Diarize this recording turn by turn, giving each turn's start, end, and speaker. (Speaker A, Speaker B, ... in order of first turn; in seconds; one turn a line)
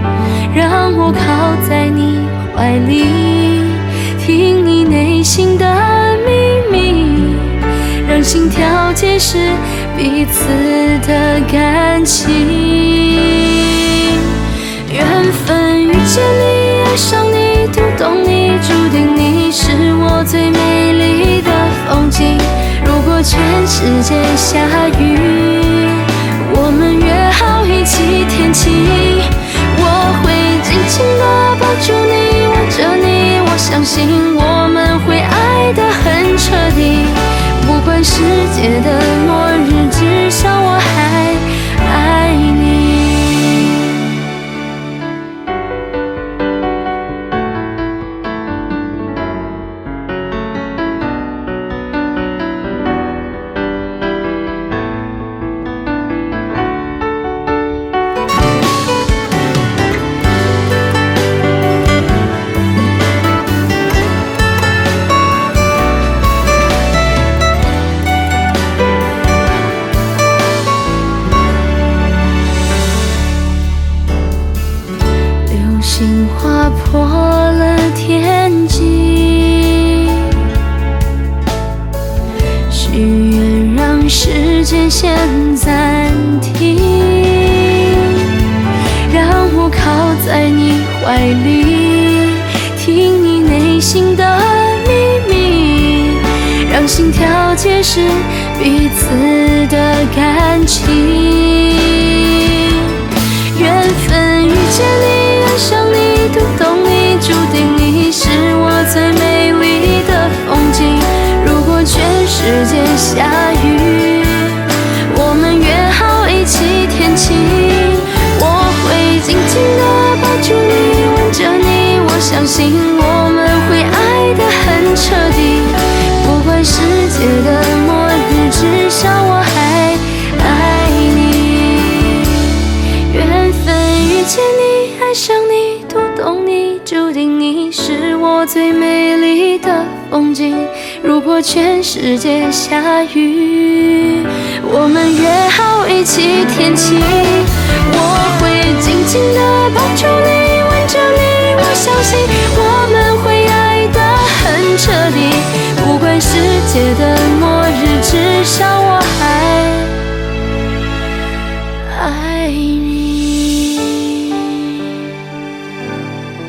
Speaker A: 0.5-43.4
Speaker A: 75.5-80.3
Speaker A: 82.7-88.3
Speaker A: 89.0-132.5
Speaker A: 133.1-160.0
Speaker A: 161.8-164.4